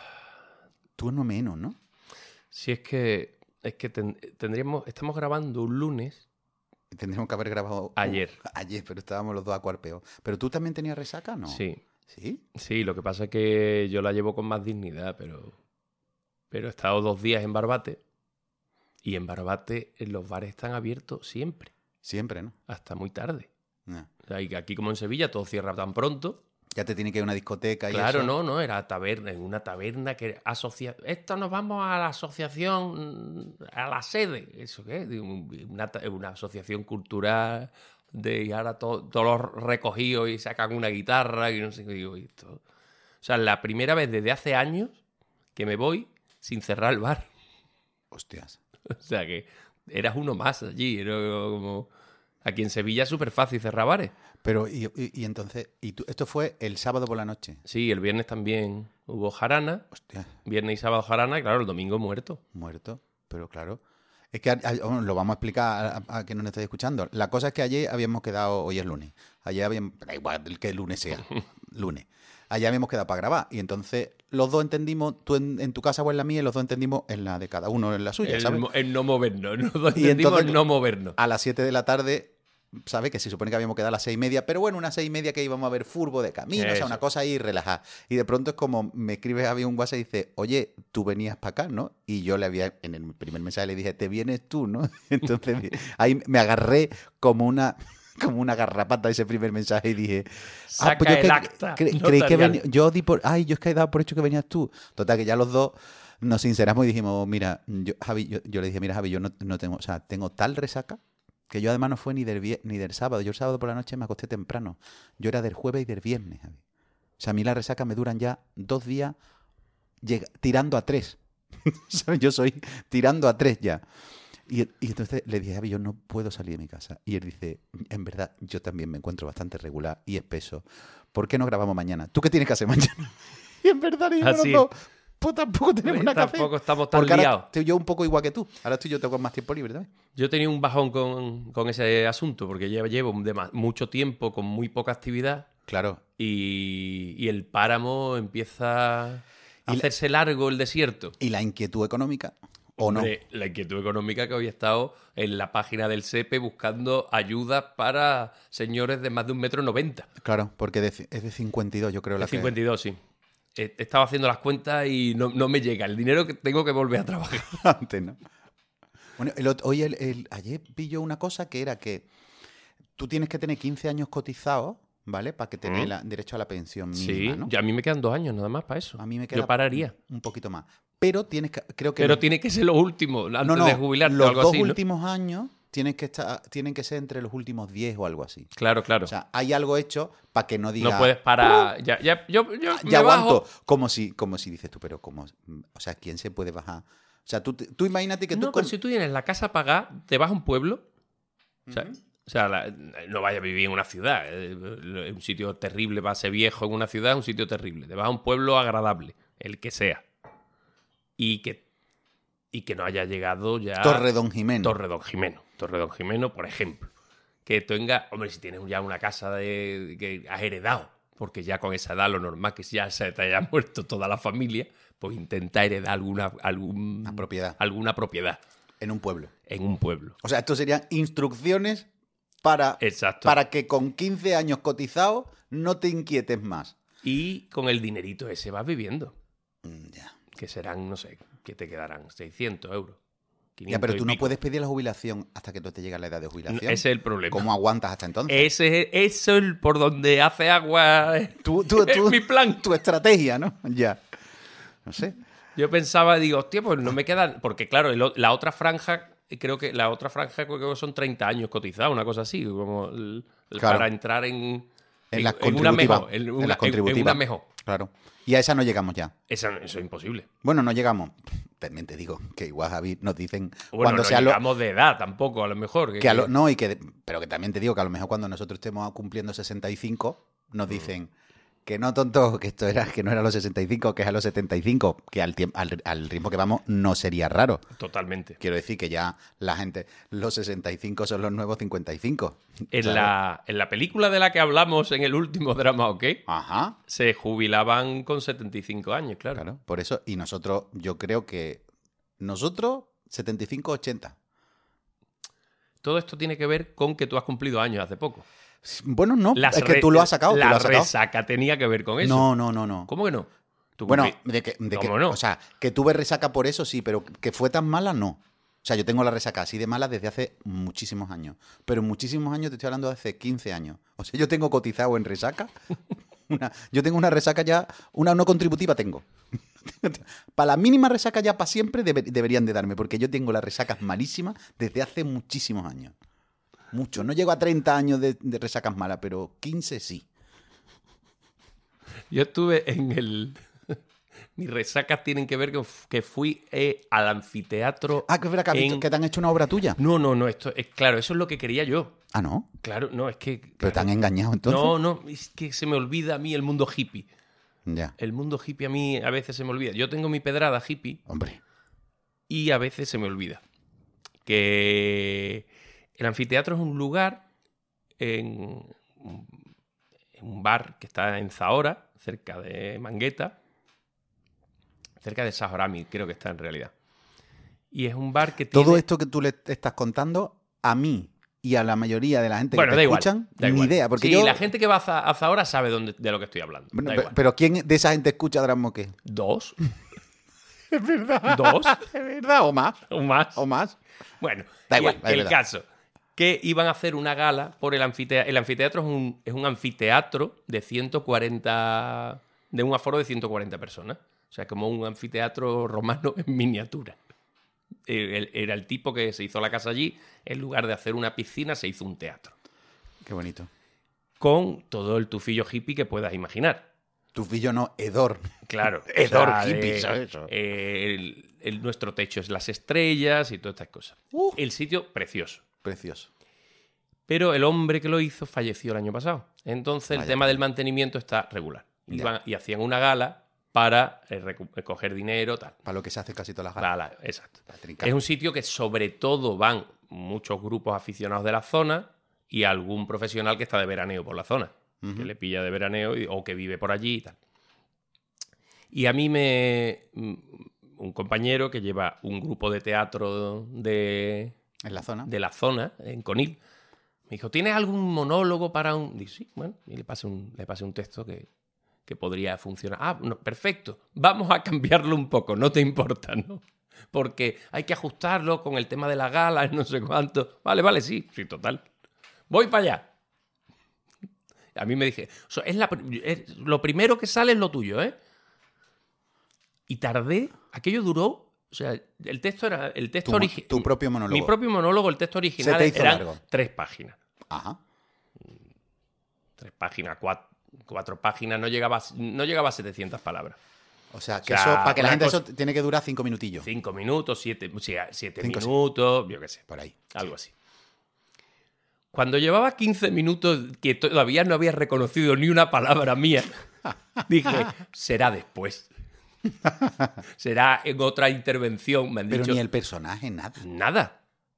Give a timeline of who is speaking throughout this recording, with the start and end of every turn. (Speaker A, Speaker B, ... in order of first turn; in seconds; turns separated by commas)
Speaker A: 1.0-1.8, Speaker B: 2.5-6.2, Speaker A: 6.9-12.4, Speaker B: 8.0-8.4, Speaker B: 11.5-11.8, Speaker B: 12.5-15.6, Speaker B: 16.5-18.0, Speaker B: 19.0-21.7, Speaker A: 22.0-22.6, Speaker B: 22.7-23.5, Speaker B: 24.2-26.4, Speaker A: 26.7-28.3, Speaker B: 27.9-42.6, Speaker B: 43.2-45.0, Speaker B: 45.5-47.2, Speaker A: 48.1-48.6, Speaker B: 48.9-51.9, Speaker B: 52.4-54.1, Speaker A: 54.4-57.6, Speaker B: 57.6-59.8, Speaker A: 59.9-60.3, Speaker B: 60.4-62.4, Speaker A: 62.5-63.8, Speaker A: 64.3-78.6, Speaker B: 78.2-81.2, Speaker A: 79.9-80.6, Speaker A: 81.1-116.6, Speaker B: 86.5-87.0, Speaker B: 100.7-102.6, Speaker A: 117.2-119.2, Speaker A: 120.0-123.8, Speaker A: 124.5-139.9, Speaker B: 134.2-134.7, Speaker B: 135.8-137.5, Speaker B: 140.1-145.5, Speaker A: 145.7-146.0, Speaker B: 146.2-151.1, Speaker A: 151.2-153.1, Speaker B: 152.8-160.1, Speaker A: 160.2-162.5, Speaker B: 162.2-163.0, Speaker B: 163.5-167.6, Speaker A: 167.5-168.2, Speaker A: 169.2-172.1, Speaker A: 173.0-177.5, Speaker B: 175.6-175.9, Speaker B: 176.9-179.9, Speaker A: 179.0-182.2, Speaker B: 182.0-184.8, Speaker A: 183.4-188.5, Speaker B: 188.6-189.1, Speaker A: 189.0-191.7, Speaker B: 190.8-193.4, Speaker A: 192.7-198.7, Speaker B: 198.3-200.8, Speaker A: 201.7-202.0, Speaker B: 201.7-210.0, Speaker B: 211.2-211.6, Speaker B: 212.5-214.1, Speaker A: 213.8-214.8, Speaker B: 214.6-216.9, Speaker B: 217.4-228.4, Speaker A: 227.0-227.6, Speaker A: 228.8-229.3, Speaker B: 229.5-230.2, Speaker A: 230.2-231.9, Speaker A: 232.4-236.7, Speaker B: 232.8-233.3, Speaker B: 237.0-239.1, Speaker A: 239.6-240.2, Speaker B: 240.3-243.0, Speaker B: 243.6-244.3, Speaker A: 243.7-248.5, Speaker B: 246.5-247.5, Speaker B: 248.3-252.7, Speaker A: 251.4-254.0, Speaker A: 254.8-255.2, Speaker B: 255.5-267.4, Speaker A: 263.6-263.9, Speaker A: 265.1-269.1, Speaker B: 269.3-270.3, Speaker A: 270.4-274.4, Speaker B: 273.7-276.3, Speaker A: 276.0-281.1, Speaker A: 281.6-287.6, Speaker B: 287.7-288.4, Speaker A: 288.4-293.1, Speaker B: 292.7-296.2, Speaker A: 296.3-296.8, Speaker B: 296.9-299.4, Speaker A: 299.4-301.6, Speaker A: 302.2-304.1, Speaker B: 305.8-308.2, Speaker A: 308.6-310.9, Speaker B: 309.3-312.3, Speaker A: 312.0-312.9, Speaker B: 312.9-314.1, Speaker A: 313.9-325.5, Speaker B: 314.7-315.2, Speaker A: 326.3-329.1, Speaker A: 329.6-335.9, Speaker A: 336.7-340.1, Speaker B: 342.1-343.8, Speaker B: 344.4-348.9, Speaker A: 348.0-349.8, Speaker B: 349.8-351.9, Speaker A: 352.1-352.5, Speaker B: 352.6-357.1, Speaker A: 353.6-354.7, Speaker A: 357.7-357.9, Speaker B: 358.0-361.0, Speaker A: 361.1-361.4, Speaker B: 362.3-363.4, Speaker B: 364.2-367.2, Speaker B: 368.0-369.3, Speaker B: 370.1-373.4, Speaker B: 375.0-376.7, Speaker B: 377.7-378.8, Speaker A: 378.5-384.4, Speaker B: 382.5-387.1, Speaker A: 386.7-388.9, Speaker B: 389.0-389.6, Speaker A: 390.7-393.8, Speaker B: 391.2-391.8, Speaker B: 392.9-393.4, Speaker B: 394.2-407.0, Speaker A: 394.7-395.4, Speaker B: 407.9-412.3, Speaker A: 413.0-413.5, Speaker B: 414.2-416.7, Speaker A: 417.1-418.3, Speaker B: 418.4-425.4, Speaker A: 418.9-420.3, Speaker A: 424.1-424.4, Speaker A: 425.6-426.1, Speaker B: 427.1-435.6, Speaker A: 429.9-430.4, Speaker A: 435.6-436.7, Speaker B: 436.6-447.2, Speaker A: 437.5-437.9, Speaker A: 444.8-445.1, Speaker B: 448.7-454.3, Speaker A: 454.6-455.1, Speaker B: 455.0-456.4, Speaker B: 457.1-461.3, Speaker B: 461.9-471.6, Speaker B: 472.3-472.9, Speaker B: 474.5-477.9, Speaker B: 479.7-487.0, Speaker A: 483.0-484.3, Speaker A: 485.4-486.2, Speaker A: 487.3-487.6, Speaker B: 489.4-493.4, Speaker A: 493.9-496.5, Speaker B: 494.2-495.2, Speaker B: 496.4-500.3, Speaker A: 498.2-498.5, Speaker A: 499.5-499.9, Speaker B: 501.9-506.3, Speaker B: 507.1-508.7, Speaker A: 509.4-510.0, Speaker B: 510.1-512.4, Speaker A: 512.1-513.4, Speaker B: 513.4-514.0